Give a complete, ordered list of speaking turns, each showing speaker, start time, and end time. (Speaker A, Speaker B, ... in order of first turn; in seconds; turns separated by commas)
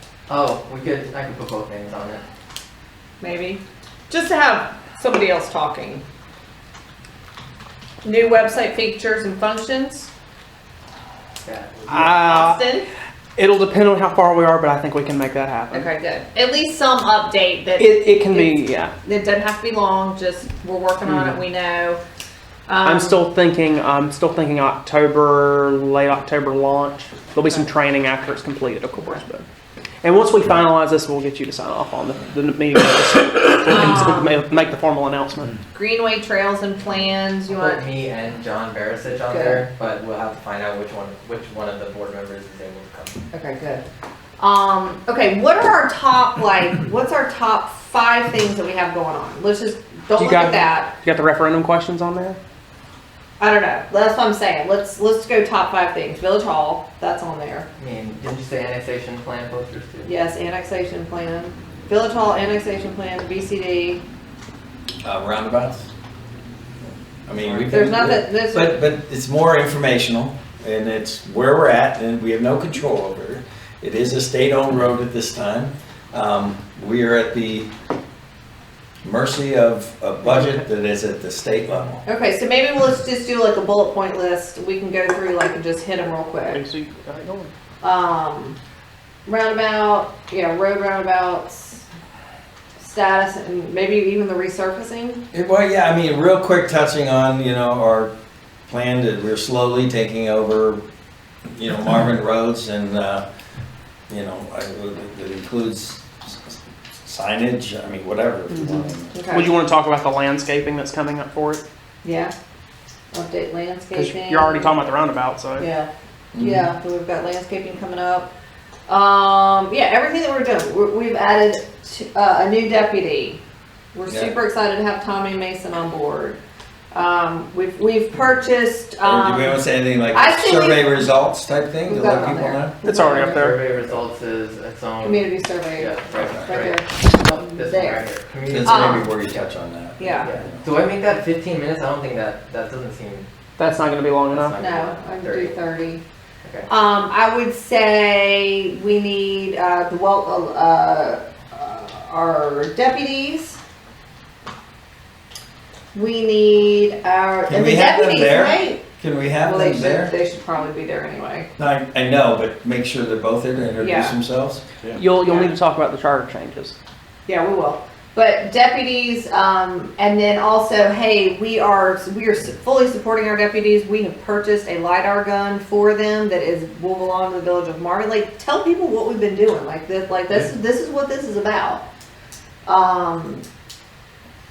Speaker A: 0.3-2.2, Speaker B: 3.2-6.0, Speaker B: 8.0-10.1, Speaker A: 11.4-12.1, Speaker C: 11.9-12.6, Speaker B: 12.1-12.9, Speaker C: 13.3-15.9, Speaker B: 15.7-22.0, Speaker C: 17.8-18.9, Speaker C: 21.0-21.3, Speaker B: 22.7-23.2, Speaker C: 22.8-29.4, Speaker B: 29.0-29.2, Speaker C: 30.0-35.6, Speaker B: 33.6-34.3, Speaker B: 35.7-37.8, Speaker A: 37.5-43.2, Speaker B: 39.3-39.6, Speaker B: 43.3-43.8, Speaker B: 44.4-50.9, Speaker C: 50.1-52.4, Speaker B: 53.4-57.7, Speaker A: 57.8-60.1, Speaker B: 60.0-64.0, Speaker D: 65.0-65.9, Speaker D: 67.2-77.7, Speaker A: 67.3-67.7, Speaker B: 67.7-68.8, Speaker D: 79.0-82.0, Speaker B: 82.0-86.6, Speaker C: 86.5-87.5, Speaker B: 87.8-88.6, Speaker B: 89.2-91.8, Speaker B: 92.8-95.2, Speaker D: 95.3-98.1, Speaker D: 98.7-100.8, Speaker D: 101.5-103.2, Speaker D: 104.1-109.1, Speaker C: 108.6-111.6, Speaker B: 109.1-109.5, Speaker B: 112.0-112.3, Speaker B: 113.1-114.9, Speaker C: 113.9-115.7, Speaker B: 115.6-118.3, Speaker D: 116.3-116.7, Speaker B: 118.9-123.4, Speaker B: 123.9-126.4, Speaker D: 124.1-124.3, Speaker B: 126.9-130.8, Speaker D: 129.0-132.8, Speaker B: 131.8-133.5, Speaker C: 132.8-133.6, Speaker A: 133.2-139.1, Speaker B: 135.0-138.1, Speaker D: 138.5-140.6, Speaker B: 138.7-139.0, Speaker B: 140.0-140.3, Speaker A: 140.2-143.3, Speaker C: 143.6-144.5, Speaker A: 144.3-145.6, Speaker B: 144.6-146.0, Speaker B: 146.7-153.6, Speaker B: 155.9-158.8, Speaker D: 157.5-160.1, Speaker B: 159.4-161.5, Speaker D: 161.6-165.0, Speaker B: 163.8-164.2, Speaker C: 164.9-166.7, Speaker B: 165.2-165.6, Speaker B: 167.2-181.8, Speaker B: 182.7-183.4